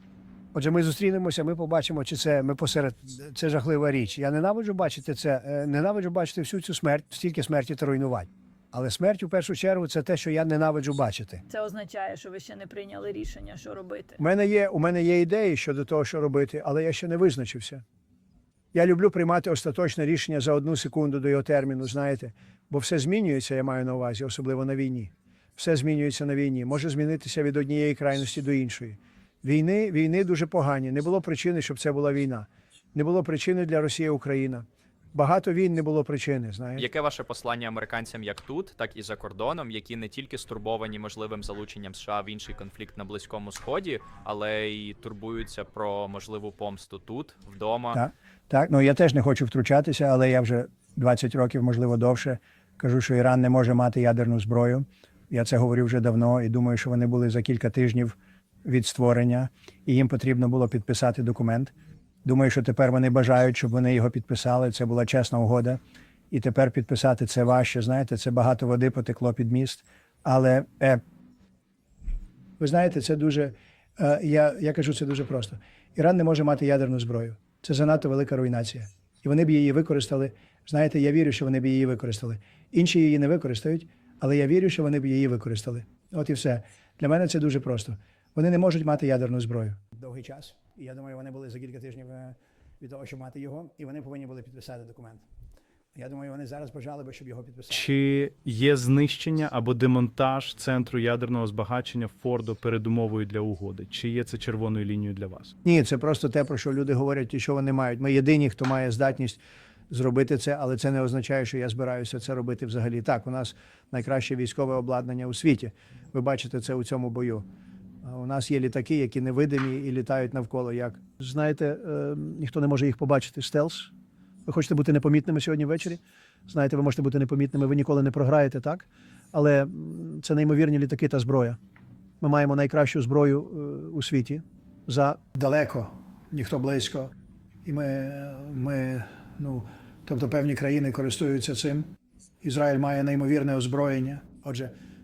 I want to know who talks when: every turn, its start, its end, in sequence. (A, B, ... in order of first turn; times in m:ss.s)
0:00.5-0:11.4 A
0:11.5-0:14.2 B
0:14.2-0:17.8 A
0:18.7-0:36.9 A
0:36.8-0:48.0 C
0:47.9-1:01.7 A
1:02.2-1:05.8 A
1:06.3-1:11.0 A
1:12.6-1:35.2 A
1:36.0-1:37.9 A
1:37.7-1:45.5 D
1:45.6-1:49.4 A
1:49.9-1:57.4 A
1:58.0-2:03.9 A
2:04.5-2:11.6 A
2:12.2-2:17.1 A
2:17.6-2:21.9 A
2:22.4-2:24.7 A